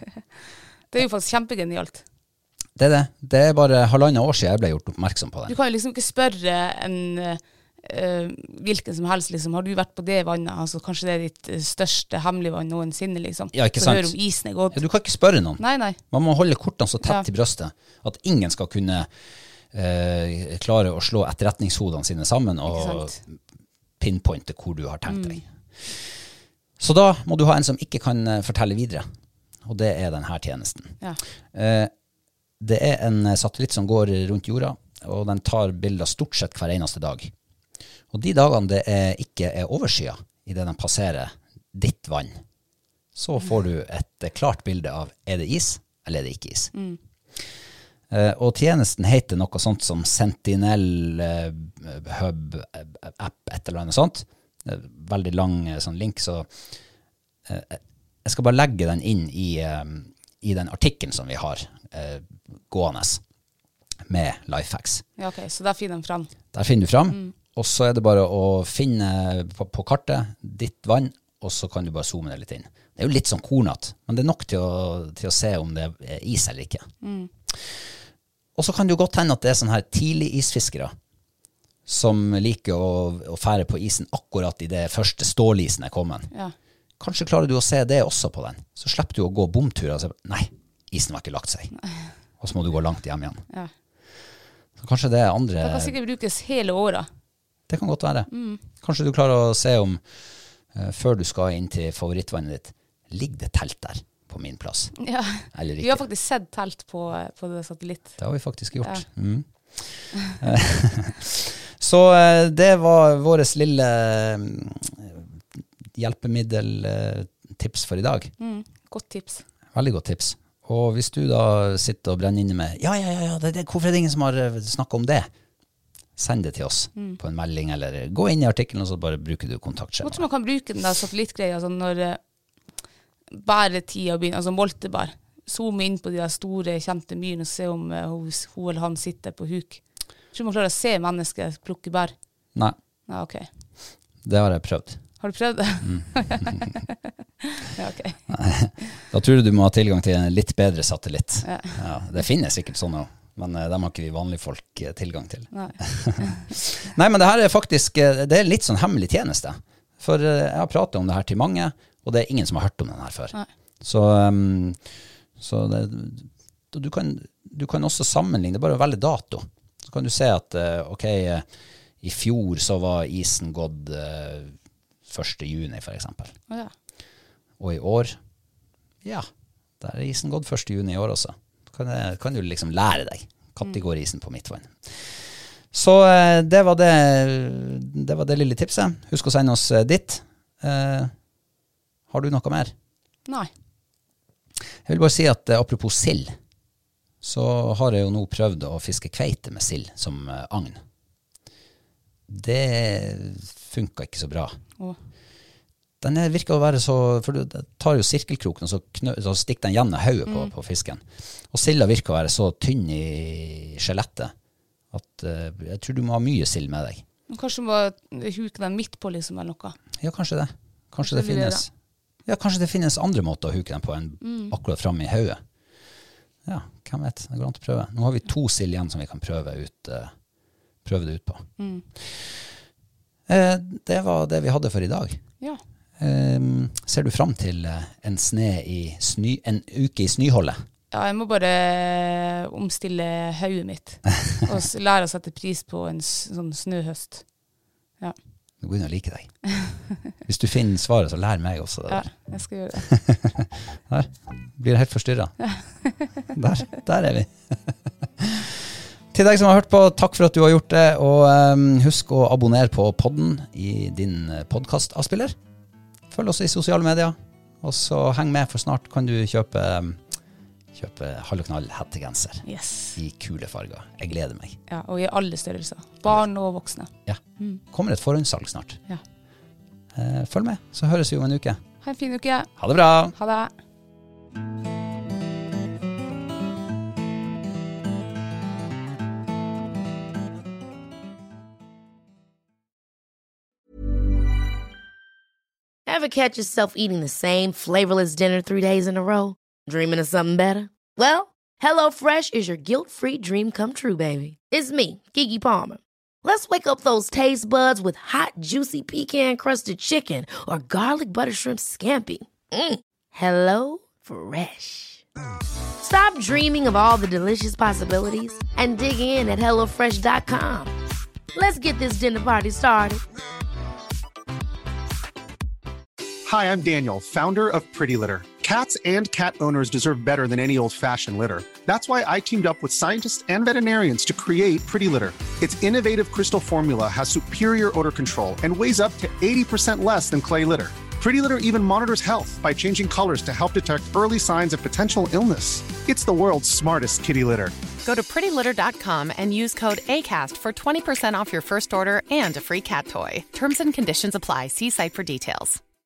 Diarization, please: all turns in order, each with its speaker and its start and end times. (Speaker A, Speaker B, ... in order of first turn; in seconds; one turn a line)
Speaker A: 0.9-2.0
Speaker B: 2.8-5.6
Speaker A: 5.5-14.8
Speaker B: 13.5-14.1
Speaker B: 14.7-19.1
Speaker A: 15.6-16.0
Speaker B: 19.7-23.4
Speaker A: 22.7-23.2
Speaker B: 24.0-26.1
Speaker A: 25.1-25.4
Speaker B: 26.8-29.1
Speaker B: 29.6-31.0
Speaker B: 31.5-31.9
Speaker B: 32.6-37.3
Speaker B: 38.1-42.4
Speaker B: 43.1-46.7
Speaker B: 48.1-56.5
Speaker B: 57.5-63.2
Speaker B: 64.1-65.0
Speaker A: 65.2-66.3
Speaker B: 66.5-76.9
Speaker A: 77.0-77.3
Speaker B: 77.5-77.9
Speaker B: 78.5-80.9
Speaker B: 81.9-86.3
Speaker B: 87.0-91.7
Speaker B: 92.4-93.4
Speaker B: 94.8-95.9
Speaker A: 95.6-97.1
Speaker B: 97.7-100.0
Speaker A: 98.3-98.6
Speaker B: 100.7-106.0
Speaker A: 105.0-108.2
Speaker B: 108.2-115.3
Speaker B: 115.9-118.3
Speaker A: 118.4-119.4
Speaker B: 119.7-125.3
Speaker B: 126.2-130.2
Speaker A: 130.0-132.2
Speaker A: 133.3-142.2
Speaker A: 143.1-143.5
Speaker B: 144.2-145.2
Speaker A: 145.2-146.9
Speaker B: 145.8-146.8
Speaker A: 147.4-148.2
Speaker B: 148.3-164.8
Speaker A: 151.4-151.7
Speaker A: 155.5-156.4
Speaker B: 165.4-171.5
Speaker B: 172.0-176.3
Speaker B: 177.6-178.2
Speaker B: 179.8-191.1
Speaker B: 192.1-192.7
Speaker B: 194.8-196.3
Speaker B: 197.2-200.8
Speaker B: 202.3-204.6
Speaker B: 206.0-214.3
Speaker A: 210.3-210.5
Speaker B: 214.9-217.0
Speaker A: 217.3-219.8
Speaker B: 220.0-221.7
Speaker A: 221.0-221.6
Speaker B: 222.2-225.4
Speaker A: 224.2-224.5
Speaker B: 226.4-230.1
Speaker B: 230.8-232.5
Speaker A: 231.6-231.8
Speaker B: 233.3-235.2
Speaker B: 236.0-240.6
Speaker A: 240.9-247.3
Speaker B: 248.6-249.4
Speaker B: 250.2-252.1
Speaker A: 251.9-252.9
Speaker B: 252.9-255.5
Speaker A: 255.5-255.9
Speaker B: 256.3-265.4
Speaker B: 266.1-270.0
Speaker B: 270.7-274.6
Speaker A: 272.4-273.0
Speaker A: 274.7-277.6
Speaker B: 277.1-278.8
Speaker B: 279.9-281.6
Speaker A: 281.8-282.5
Speaker B: 282.6-283.1
Speaker A: 283.1-283.5
Speaker C: 295.9-315.0
Speaker C: 315.8-320.7
Speaker C: 321.3-323.0
Speaker D: 326.2-347.5
Speaker E: 347.8-355.6